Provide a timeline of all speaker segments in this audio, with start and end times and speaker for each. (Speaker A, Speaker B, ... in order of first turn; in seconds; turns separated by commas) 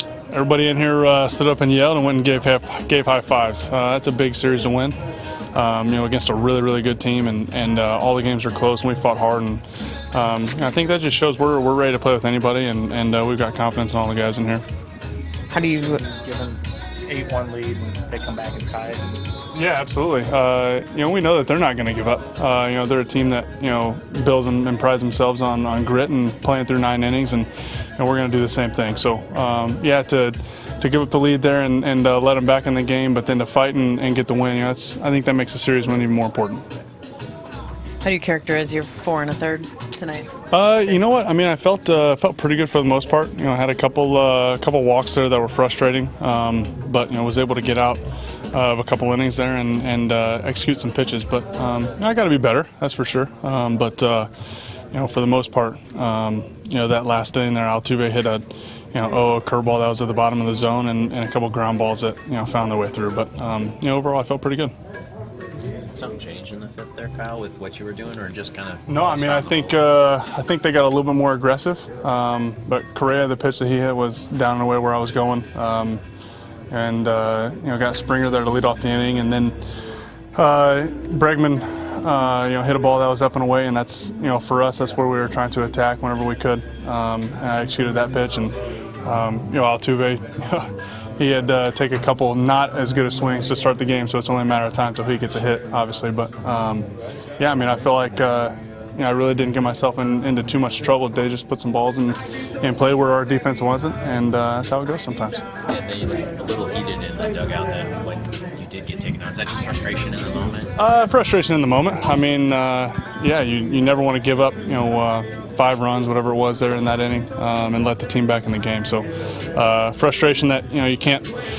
Speaker A: 0.3-5.0, Speaker A: 5.5-14.6, Speaker B: 15.5-16.0, Speaker C: 15.5-19.1, Speaker A: 19.5-36.6, Speaker B: 38.0-40.3, Speaker A: 40.5-54.3, Speaker A: 54.9-64.7, Speaker D: 65.9-69.8, Speaker A: 68.9-76.0, Speaker A: 76.7-79.5, Speaker A: 80.3-96.9, Speaker A: 97.4-105.4, Speaker D: 105.7-110.7, Speaker A: 110.8-121.3